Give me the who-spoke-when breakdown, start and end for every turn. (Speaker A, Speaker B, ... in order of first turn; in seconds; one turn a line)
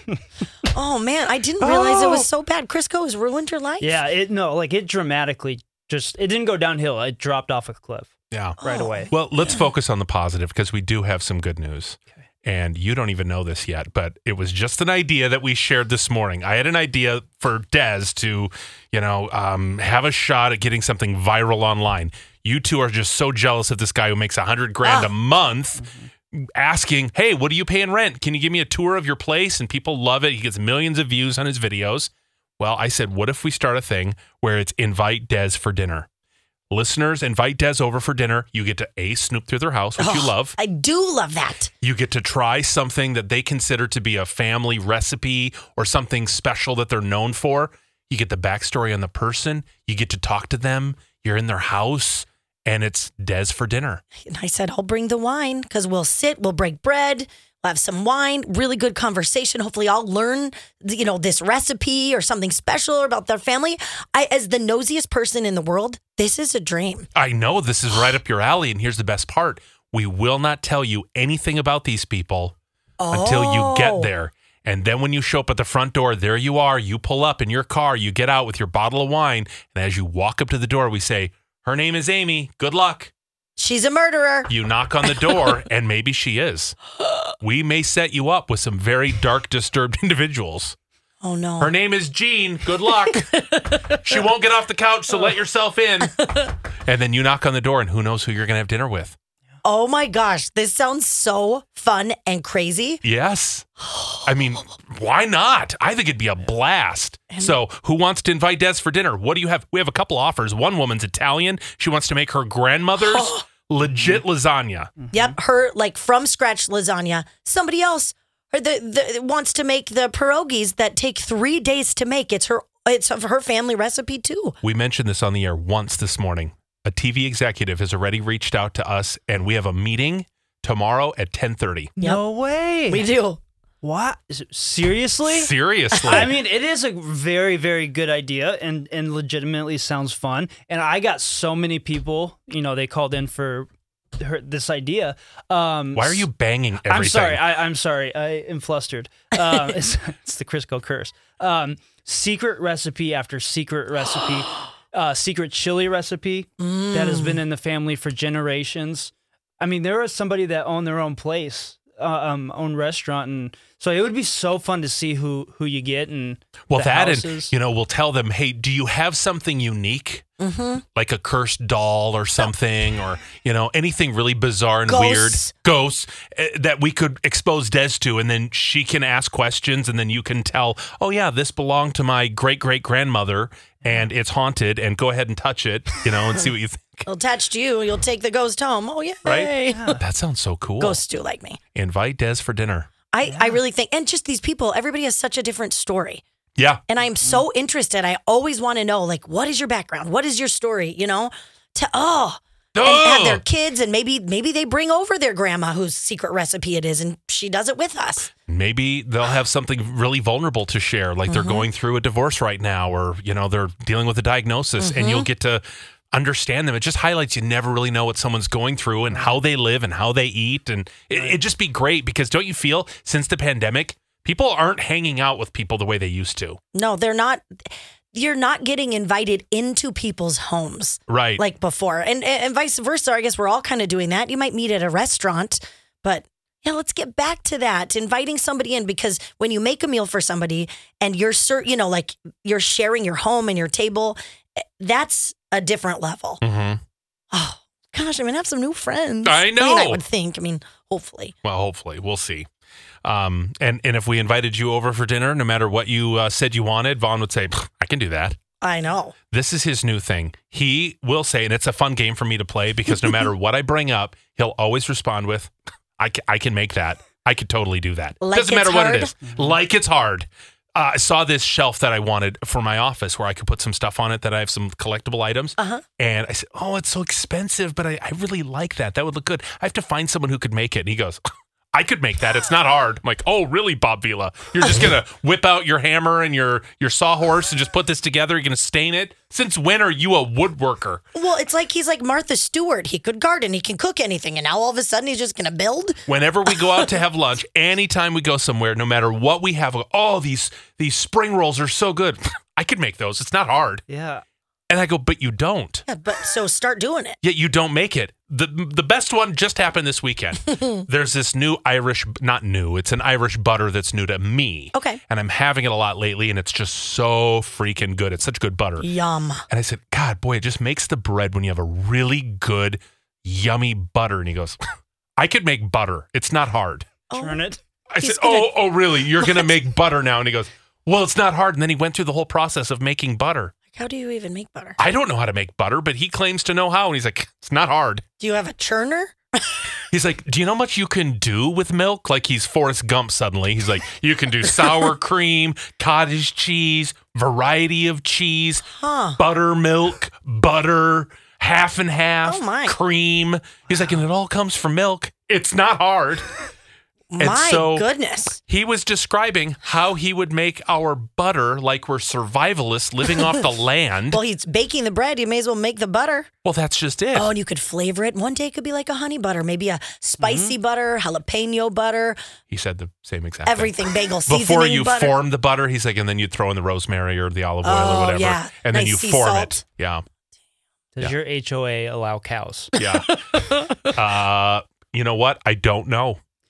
Speaker A: 0.7-4.0
Speaker B: 1.6-2.3
Speaker C: 3.8-9.1
Speaker B: 8.3-36.1
Speaker A: 8.6-9.6
Speaker A: 24.8-25.1
Speaker C: 25.8-26.1
Speaker B: 36.7-40.6
Speaker A: 40.0-41.7
Speaker B: 41.8-54.0
Speaker A: 54.2-67.1
Speaker B: 67.2-72.5
Speaker A: 73.0-74.1
Speaker B: 73.1-83.1
Speaker A: 83.6-84.5
Speaker B: 84.5-86.8
Speaker B: 87.4-90.8
Speaker A: 91.2-91.7
Speaker B: 91.6-96.2
Speaker B: 96.8-99.2
Speaker A: 99.6-103.0
Speaker B: 103.0-103.7
Speaker A: 103.9-104.2
Speaker B: 104.2-114.9
Speaker A: 107.3-107.6
Speaker A: 113.0-113.5
Speaker C: 113.8-114.2
Speaker C: 115.0-115.3
Speaker A: 115.1-124.6
Speaker B: 124.6-131.9
Speaker C: 132.0-133.1
Speaker A: 132.9-133.4
Speaker C: 133.8-146.3
Speaker B: 135.3-136.3
Speaker B: 145.9-147.4
Speaker C: 146.9-167.5
Speaker A: 156.6-157.4
Speaker B: 166.7-170.2
Speaker A: 170.4-170.8
Speaker B: 170.9-187.1
Speaker A: 174.9-175.5
Speaker A: 187.1-190.0
Speaker B: 189.2-191.0
Speaker C: 189.7-190.0
Speaker A: 190.8-191.6
Speaker B: 191.8-192.9
Speaker A: 193.1-196.2
Speaker C: 193.3-193.6
Speaker B: 196.6-196.8
Speaker A: 196.9-208.3
Speaker B: 202.7-203.4
Speaker B: 208.5-226.6
Speaker A: 211.3-211.7
Speaker A: 214.8-215.3
Speaker C: 219.1-219.4
Speaker C: 221.1-221.4
Speaker A: 226.7-246.4
Speaker B: 231.1-231.4
Speaker B: 246.4-246.8
Speaker A: 247.3-251.3
Speaker B: 249.2-250.0
Speaker B: 251.4-252.5
Speaker B: 253.0-258.4
Speaker A: 258.6-259.1
Speaker B: 259.3-281.2
Speaker A: 268.2-269.1
Speaker C: 269.2-269.5
Speaker A: 275.6-275.8
Speaker B: 281.7-291.0
Speaker A: 291.1-296.0
Speaker B: 296.1-303.8
Speaker C: 303.9-304.2
Speaker B: 304.7-305.8
Speaker A: 305.9-307.2
Speaker B: 307.2-318.9
Speaker A: 314.7-315.0
Speaker A: 318.8-319.4
Speaker B: 319.5-324.6
Speaker B: 325.2-326.9
Speaker A: 327.1-327.4
Speaker C: 327.1-327.6
Speaker B: 327.9-333.5
Speaker A: 328.0-328.6
Speaker A: 329.2-329.5
Speaker A: 333.7-334.8
Speaker B: 334.8-338.0
Speaker A: 338.2-339.6
Speaker B: 339.9-348.6
Speaker A: 348.7-349.2
Speaker B: 349.2-356.3
Speaker A: 352.2-352.8
Speaker A: 357.1-358.4
Speaker B: 357.2-357.9
Speaker B: 358.4-364.2
Speaker A: 364.1-366.3
Speaker B: 366.4-367.3
Speaker A: 367.1-372.2
Speaker C: 370.2-370.6
Speaker B: 372.5-373.7
Speaker A: 373.5-375.2
Speaker B: 374.3-380.1
Speaker A: 377.6-379.6
Speaker C: 381.0-382.7
Speaker B: 382.8-383.2
Speaker B: 383.8-386.2